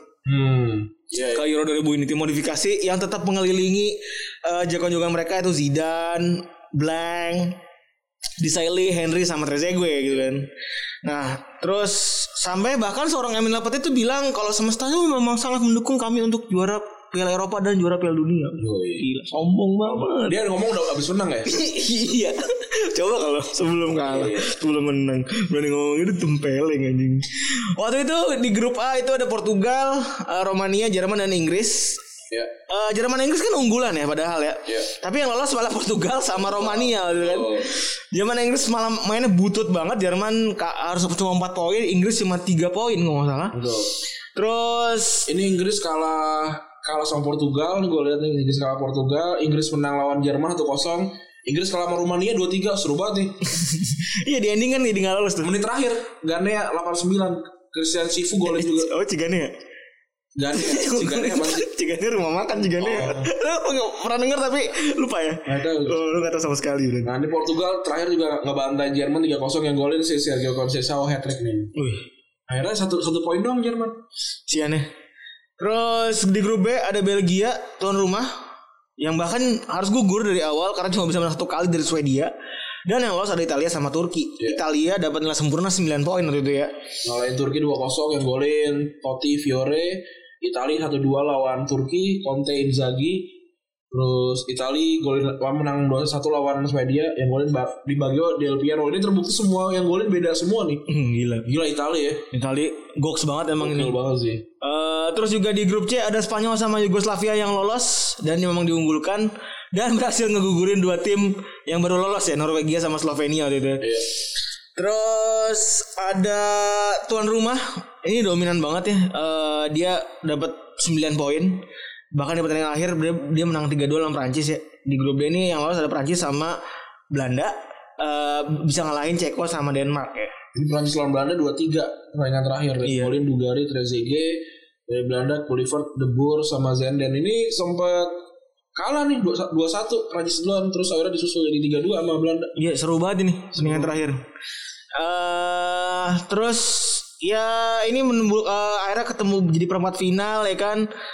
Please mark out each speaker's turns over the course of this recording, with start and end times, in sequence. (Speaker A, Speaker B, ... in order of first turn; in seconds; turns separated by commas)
Speaker A: 0.3-1.5, Speaker B: 1.3-7.6, Speaker B: 8.4-10.5, Speaker B: 11.0-20.4, Speaker A: 18.6-19.1, Speaker A: 19.9-21.6, Speaker B: 21.5-32.0, Speaker A: 24.0-24.6, Speaker B: 32.7-43.6, Speaker A: 36.3-37.7, Speaker A: 43.5-44.0, Speaker B: 44.4-45.3, Speaker A: 45.3-53.5, Speaker B: 53.5-55.5, Speaker A: 55.4-58.9, Speaker B: 58.5-59.5, Speaker A: 60.4-61.7, Speaker B: 60.5-67.1, Speaker A: 62.8-63.3, Speaker A: 65.5-66.0, Speaker A: 67.0-71.7, Speaker B: 71.8-72.0, Speaker A: 72.5-74.0, Speaker B: 74.5-74.9, Speaker B: 75.6-78.3, Speaker B: 79.0-82.3, Speaker B: 82.9-86.7, Speaker A: 87.0-93.3, Speaker A: 93.9-100.8, Speaker B: 100.9-101.5, Speaker A: 101.4-102.3, Speaker B: 102.3-104.0, Speaker A: 103.6-104.5, Speaker B: 104.6-113.9, Speaker A: 113.8-114.1, Speaker B: 114.8-126.6, Speaker B: 127.1-130.3, Speaker A: 130.5-138.2, Speaker B: 132.8-133.1, Speaker A: 138.8-142.6, Speaker B: 142.6-144.2, Speaker A: 143.5-144.0, Speaker B: 144.9-150.9